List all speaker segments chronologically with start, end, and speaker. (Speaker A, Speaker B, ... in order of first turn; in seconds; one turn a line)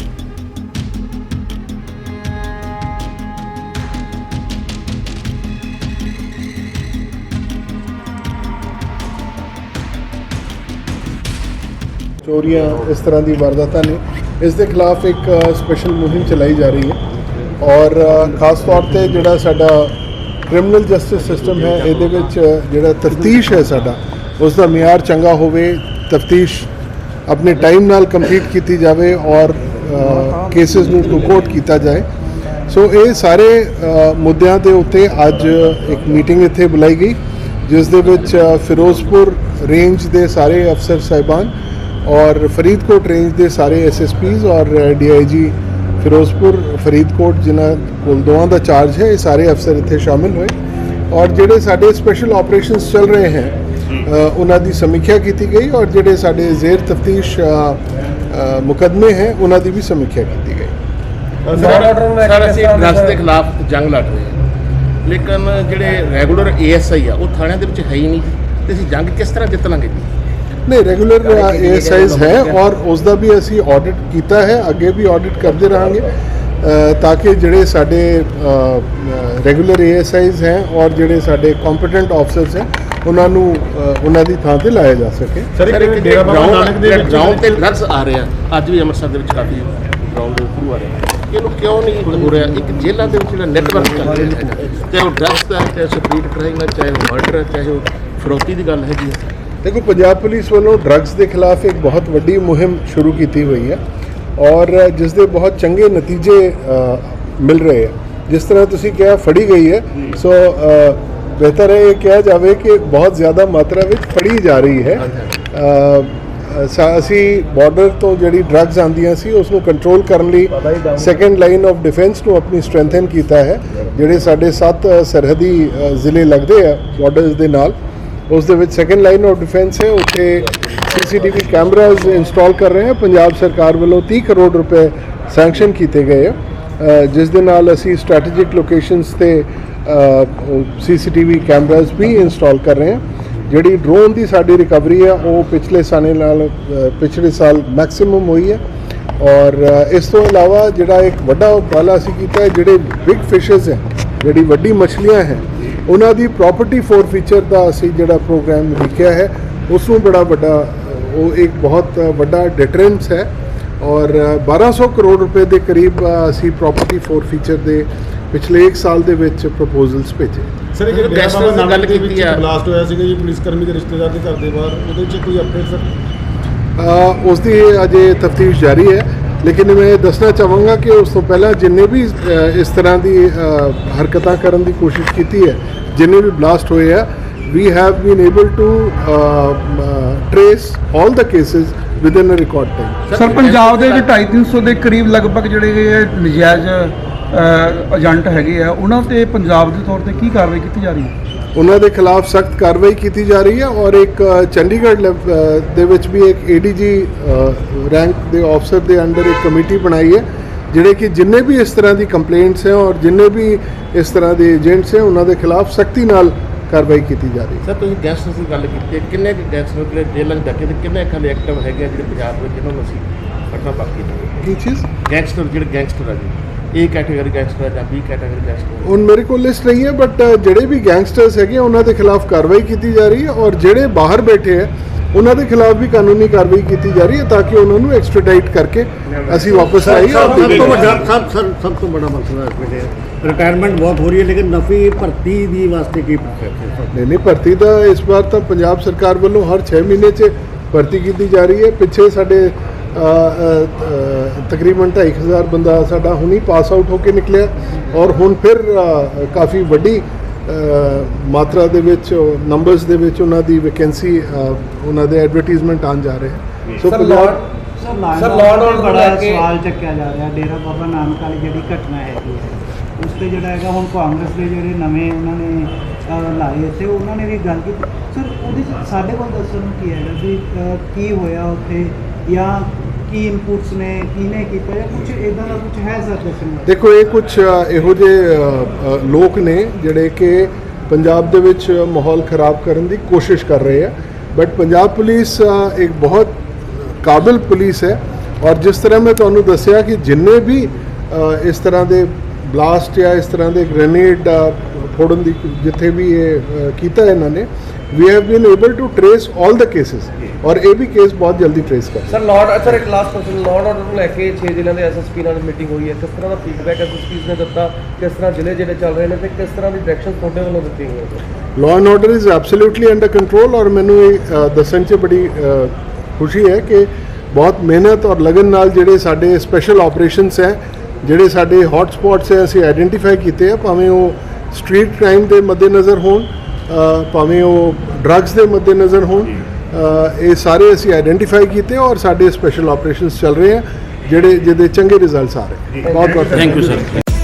Speaker A: 12.2-17.0
Speaker A: 17.6-19.9
Speaker A: 20.5-26.7
Speaker B: 21.2-22.3
Speaker A: 27.3-32.1
Speaker A: 32.6-41.5
Speaker A: 42.0-50.5
Speaker A: 51.1-60.7
Speaker C: 61.5-63.2
Speaker B: 61.5-64.4
Speaker B: 65.0-70.1
Speaker A: 70.7-76.1
Speaker B: 71.2-72.6
Speaker A: 76.6-85.5
Speaker D: 85.5-87.7
Speaker B: 85.7-99.3
Speaker A: 99.6-103.8
Speaker A: 104.4-127.8
Speaker B: 115.0-115.3
Speaker A: 128.3-148.6
Speaker A: 149.2-163.3
Speaker A: 163.8-170.6
Speaker D: 170.8-175.9
Speaker B: 170.9-172.4
Speaker A: 176.8-193.0
Speaker B: 193.1-194.1
Speaker E: 193.2-201.1
Speaker A: 201.6-217.6
Speaker B: 217.6-224.4
Speaker A: 224.4-224.9
Speaker B: 225.1-228.9
Speaker A: 228.8-240.8
Speaker B: 239.1-241.1
Speaker F: 239.7-246.9
Speaker A: 246.9-267.4
Speaker C: 266.9-267.5
Speaker G: 267.8-286.7
Speaker C: 268.1-269.5
Speaker A: 286.7-312.2
Speaker C: 312.1-321.2
Speaker A: 321.6-346.8
Speaker C: 345.8-346.8